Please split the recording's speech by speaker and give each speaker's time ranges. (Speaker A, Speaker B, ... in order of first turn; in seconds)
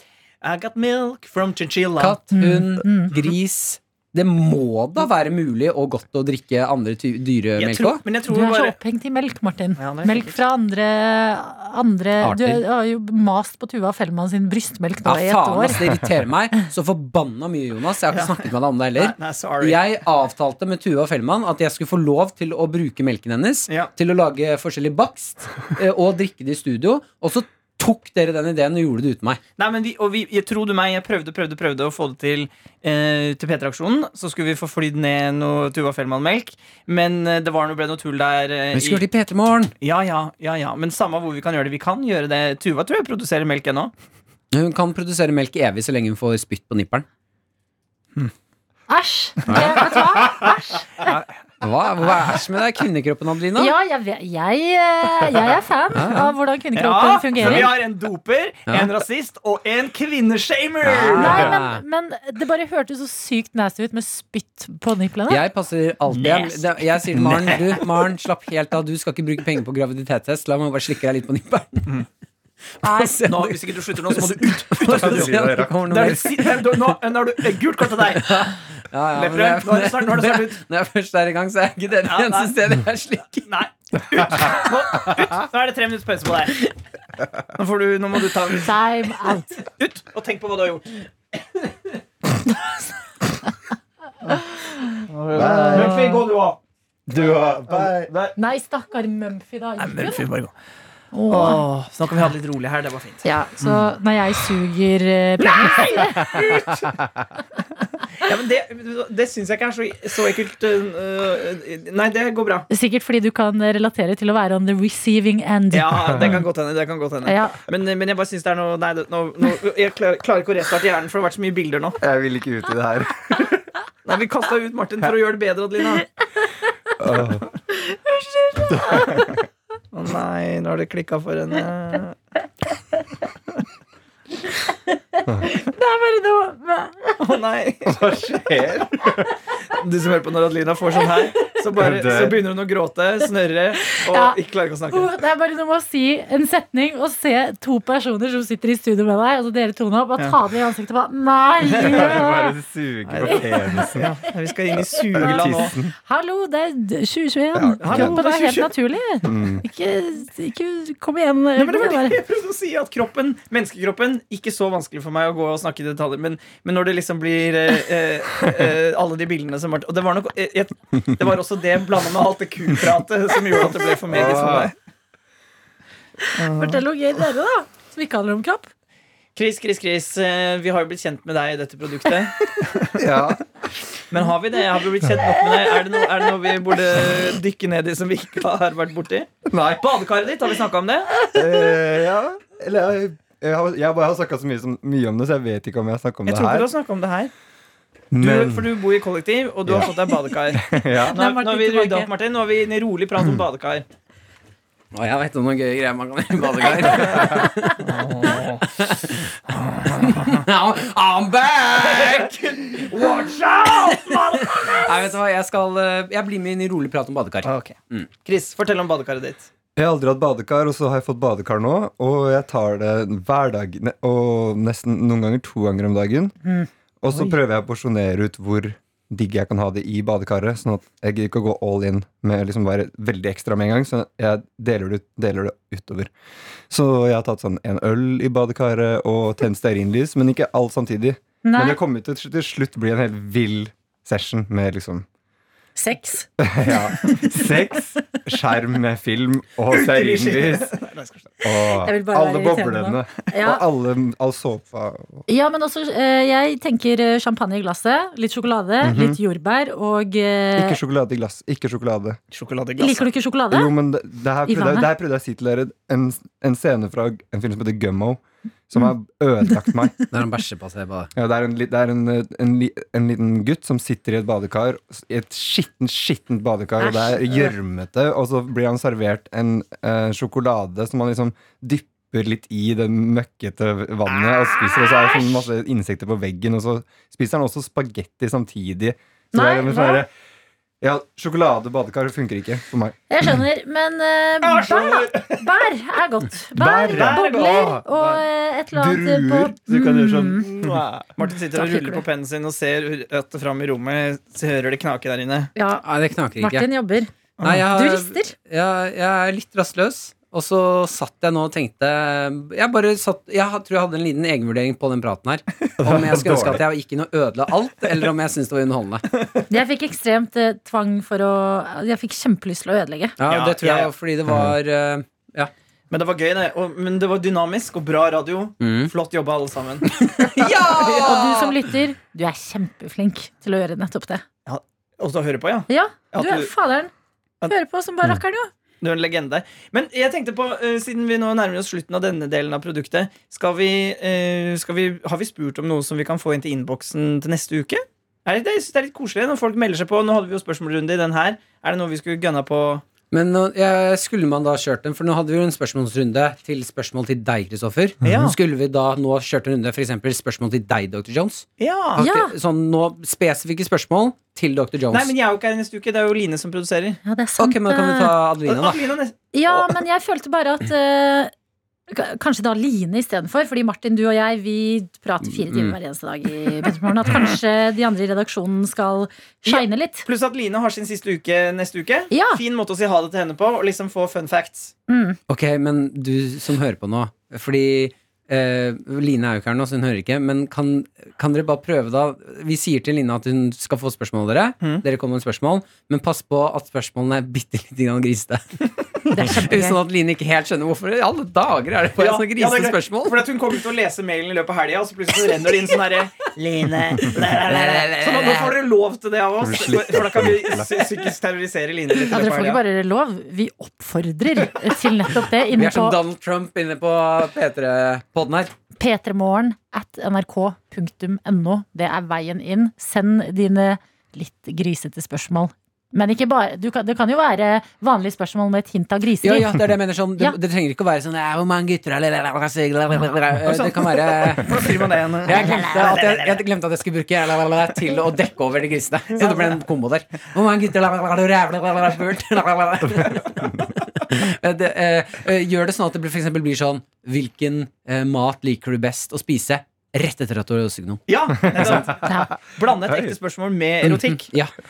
Speaker A: 0.4-2.2, 7.6-8.8, 9.8-10.4, 18.1-18.4, 18.9-19.8, 29.6-39.0, 39.8-43.9, 56.7-61.5, 66.1-67.9, 73.3-78.5, 79.1-80.6, 82.1-82.5, 83.5-86.7, 87.5-88.8, 89.6-91.7, 95.1-96.6, 97.7-98.3, 99.8-100.5, 101.3-103.9, 105.4-106.9, 108.2-112.7, 115.7-122.0, 124.0-126.0, 129.9-132.2, 137.2-138.0, 139.8-145.1, 151.6-152.2, 153.1-155.7, 157.8-158.7, 161.6-174.7, 176.4-176.8, 179.3-183.3, 184.1-191.2, 196.2-197.3, 198.2-203.8, 207.3-208.6, 209.5-210.4, 211.8-215.1, 217.4-219.5, 249.7-251.3, 262.3-263.1, 284.1-285.4, 294.4-295.5, 296.9-297.8, 300.6-305.5, 307.4-307.6, 323.3-323.9, 325.9-331.1, 334.4-336.5, 338.8-352.8, 358.0-358.3, 361.6-362.1, 364.9-367.0, 368.4-369.7, 379.5-384.7, 402.0-412.6, 433.4-436.4, 439.2-439.5, 451.1-454.3
Speaker B: 2.0-8.0, 12.2-12.6, 15.0-29.4, 38.7-39.7, 44.5-47.0, 49.5-50.0, 51.6-53.7, 55.9-56.3, 60.8-61.8, 65.3-72.0, 72.8-77.0, 78.0-83.5, 204.9-207.8, 208.6-209.4, 209.9-212.7, 213.8-218.1, 270.1-271.1, 305.8-306.7, 307.4-319.1, 323.2-325.5, 328.6-328.9, 330.0-331.6, 353.1-365.1, 367.4-368.8, 375.4-375.7, 385.3-398.4, 399.2-403.3, 407.0-408.6, 415.5-418.5, 429.2-451.0, 453.8-454.5
Speaker C: 2.3-3.1, 8.3-15.8, 48.9-50.9, 53.6-57.8, 61.1-65.4, 72.8-73.2, 88.6-89.5, 95.7-96.2, 98.3-100.2, 101.1-101.6, 103.2-106.7, 112.7-116.4, 117.2-117.6, 127.8-129.3, 135.2-137.2, 143.9-144.4, 144.9-152.6, 153.2-153.9, 155.2-162.2, 176.2-178.7, 201.1-202.1, 207.1-207.5, 241.4-241.8, 245.8-247.4, 251.7-253.6, 255.3-260.8, 262.8-263.7, 264.5-264.9, 269.5-270.1, 276.8-277.5, 289.3-290.0, 293.1-300.5, 301.5-302.0, 305.6-305.9, 306.4-307.1, 307.7-308.3, 319.5-323.1, 330.8-334.2, 335.7-336.9, 337.5-338.5, 362.0-362.3, 367.0-368.1, 369.3-371.3, 371.9-380.0, 382.1-382.4, 384.9-385.2, 399.1-399.8, 412.1-416.0, 418.8-429.6, 435.3-435.8, 452.0-452.3
Speaker D: 74.8-76.1, 95.3-96.1, 97.1-98.1, 116.1-116.4, 122.0-123.7, 127.0-127.5, 128.7-129.4, 137.8-139.3, 141.8-142.4, 151.8-154.2, 154.7-155.9, 157.5-158.2, 159.2-159.6, 174.1-174.7, 182.9-183.4, 189.4-190.1, 191.3-196.7, 198.1-198.7, 199.7-199.9, 200.5-201.2, 219.8-226.3, 227.0-236.1, 236.7-245.1, 246.4-250.7, 251.4-255.2, 258.8-259.2, 260.6-262.2, 263.5-269.9, 271.1-290.1, 290.8-292.9, 296.6-301.1, 315.8-316.6, 409.4-410.9, 451.5-452.2, 452.9-453.1